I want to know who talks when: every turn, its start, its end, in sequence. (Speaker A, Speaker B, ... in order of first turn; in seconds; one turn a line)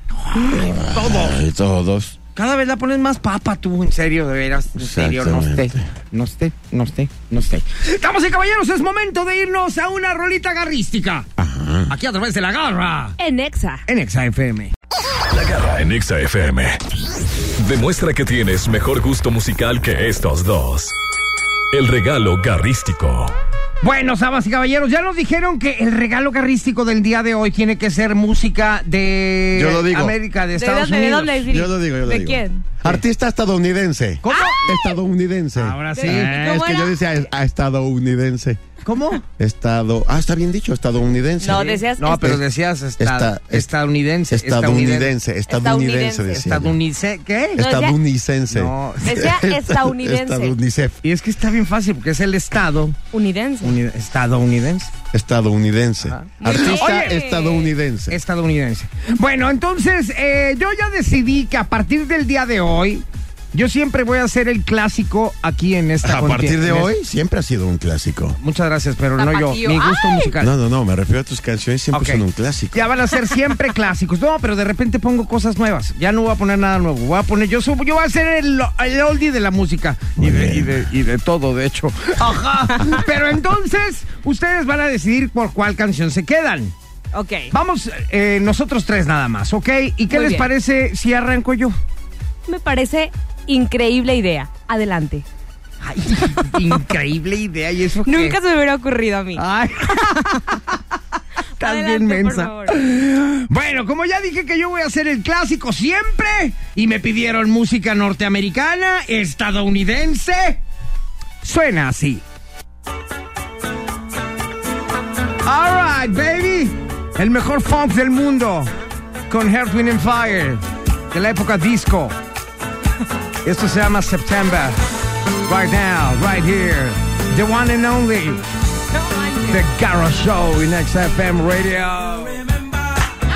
Speaker A: 0.2-1.4
Speaker B: 0.3-2.2
Speaker A: 2.3-11.3
Speaker B: 4.8-5.8
Speaker B: 11.4-11.9
Speaker A: 11.9-13.2
Speaker C: 13.2-13.8
Speaker A: 13.9-14.7
Speaker D: 15.2-16.8
Speaker D: 17.6-20.9
Speaker D: 21.7-23.3
Speaker A: 23.8-31.4
Speaker B: 29.5-30.1
Speaker C: 30.6-32.6
Speaker B: 31.5-38.6
Speaker A: 34.2-34.7
Speaker C: 34.3-34.9
Speaker A: 35.5-36.7
Speaker C: 35.9-37.0
Speaker A: 38.8-39.2
Speaker B: 39.4-42.4
Speaker C: 41.4-42.3
Speaker A: 41.5-45.1
Speaker B: 43.0-43.7
Speaker B: 44.3-46.8
Speaker C: 45.5-46.4
Speaker A: 46.4-47.6
Speaker B: 47.5-51.0
Speaker C: 47.6-48.0
Speaker A: 48.5-49.2
Speaker C: 49.0-50.5
Speaker A: 51.0-53.0
Speaker C: 53.1-53.8
Speaker A: 53.6-54.9
Speaker B: 55.1-58.2
Speaker A: 56.1-57.2
Speaker C: 56.4-57.7
Speaker A: 58.1-66.9
Speaker B: 66.0-68.4
Speaker A: 68.4-70.5
Speaker C: 69.2-70.3
Speaker B: 70.4-72.9
Speaker A: 71.9-86.7
Speaker B: 80.2-80.8
Speaker C: 82.7-83.0
Speaker C: 87.1-87.5
Speaker A: 87.5-91.7
Speaker C: 90.1-90.5
Speaker C: 92.5-95.2
Speaker A: 95.8-98.4
Speaker C: 98.0-100.6
Speaker A: 99.3-100.8
Speaker A: 101.6-110.6
Speaker C: 101.6-102.8
Speaker A: 111.4-112.2
Speaker A: 115.4-118.7
Speaker A: 119.3-122.1
Speaker A: 123.4-124.8
Speaker A: 125.5-128.4
Speaker C: 128.9-129.6
Speaker A: 129.4-132.4